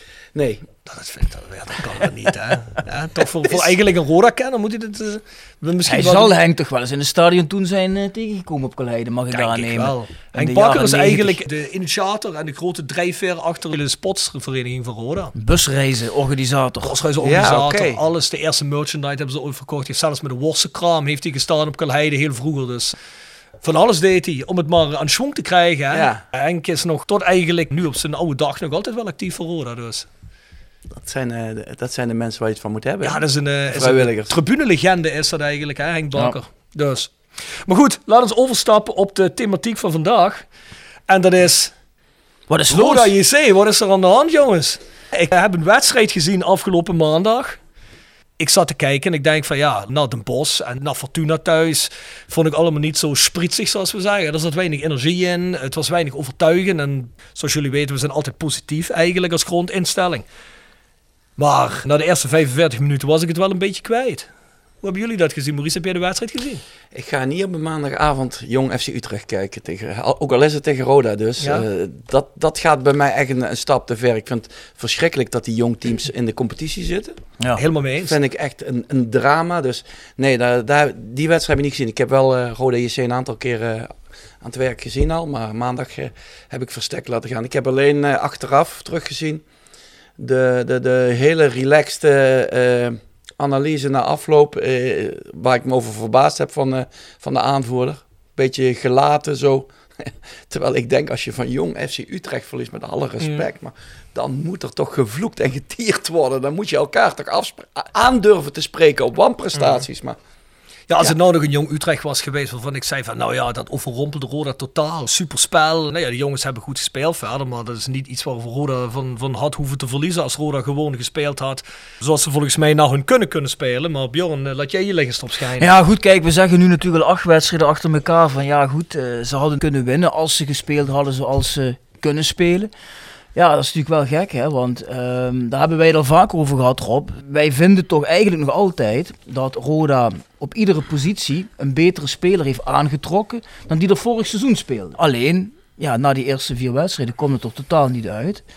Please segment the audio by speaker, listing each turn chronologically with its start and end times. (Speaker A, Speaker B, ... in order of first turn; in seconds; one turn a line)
Speaker A: 0.3-0.6
Speaker B: 0.8-6.4
Speaker C: 5.8-11.4
Speaker B: 9.3-15.3
Speaker C: 15.3-16.9
Speaker B: 16.8-22.9
Speaker A: 17.2-18.0
Speaker B: 23.6-30.1
Speaker A: 25.9-26.2
Speaker A: 30.9-34.3
Speaker B: 33.0-40.4
Speaker B: 41.1-41.7
Speaker C: 42.5-43.1
Speaker B: 42.7-47.6
Speaker B: 48.4-60.2
Speaker B: 61.4-64.3
Speaker B: 64.8-66.6
Speaker A: 66.9-77.2
Speaker B: 71.4-71.6
Speaker B: 77.5-78.1
Speaker A: 78.0-89.4
Speaker A: 90.2-110.2
Speaker B: 109.5-109.8
Speaker B: 110.9-125.7
Speaker C: 125.6-132.7
Speaker C: 133.3-148.4